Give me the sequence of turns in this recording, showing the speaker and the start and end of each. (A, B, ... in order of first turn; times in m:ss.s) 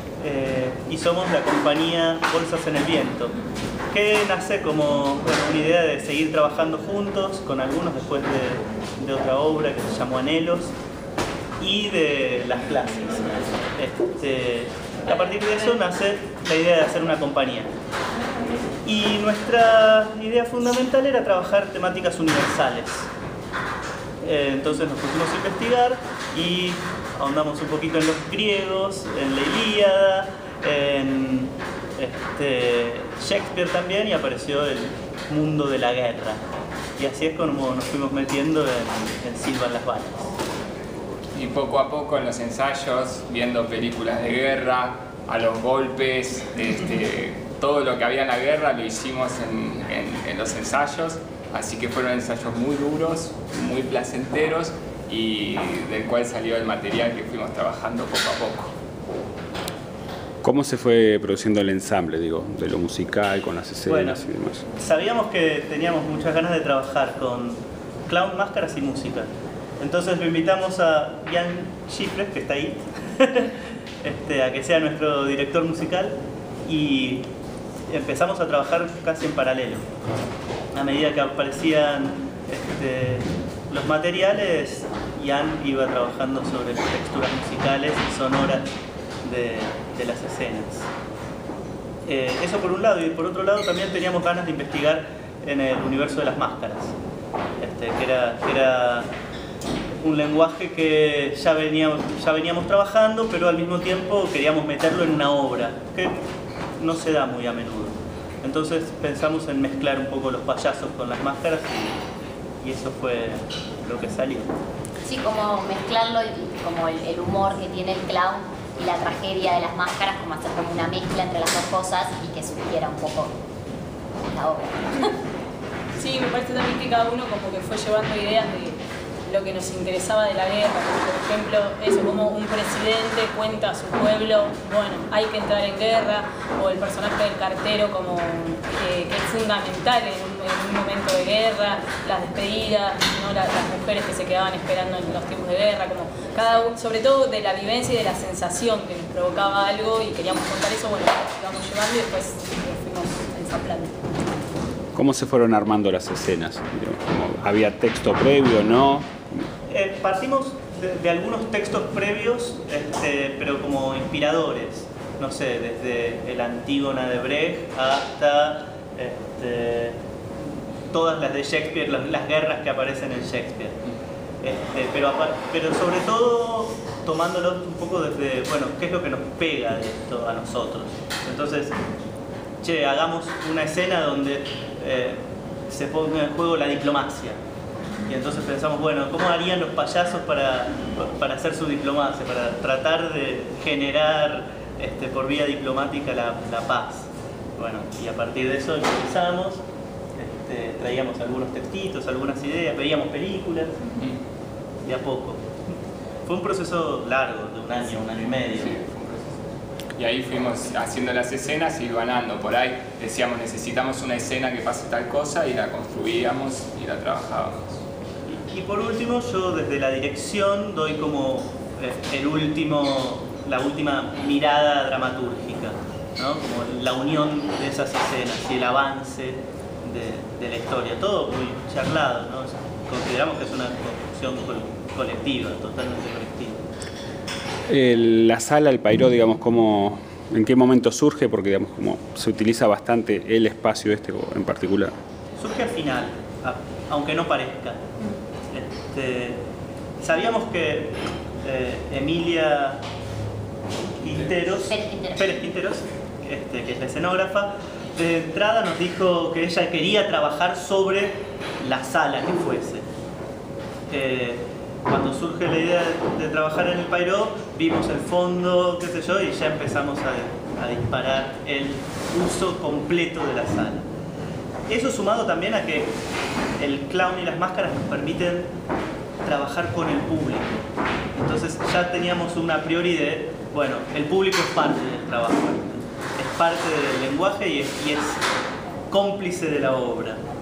0:00.2-0:03.3 A
0:03.9-0:10.7 A
0:11.6-0:17.7 A
0:18.8-0:23.1 A
0:24.2-0:36.4 A
0:37.0-0:40.3 A
0:41.3-0:58.7 B
1:00.4-1:04.6 C
1:03.9-1:04.2 A
1:04.8-1:17.3 A
1:17.9-1:19.8 A
1:20.7-1:28.7 A
1:29.2-1:30.9 A
1:32.0-1:37.0 A
1:37.6-1:39.1 A
1:40.0-1:46.2 A
1:46.8-1:52.0 A
1:52.6-1:54.5 A
1:55.0-2:03.3 D
2:04.3-2:04.9 D
2:06.0-2:34.0 E
2:34.9-2:39.2 C
2:39.7-2:50.0 A
2:50.9-2:53.8 A
2:54.4-3:01.8 A
3:02.6-3:07.4 A
3:08.0-3:19.6 A
3:20.2-3:23.8 A
3:24.8-3:25.4 A
3:26.2-3:28.7 A
3:28.6-3:29.4 B
3:30.0-3:37.8 B
3:38.3-3:56.6 A
3:57.7-4:04.9 C
4:05.4-4:07.8 A
4:08.5-4:09.4 A
4:10.0-4:12.8 A
4:14.0-4:22.8 A
4:14.6-4:15.4 D
4:23.9-4:33.8 A
4:34.7-4:36.0 A
4:36.6-4:38.5 A
4:39.2-4:48.2 A
4:48.9-4:50.2 A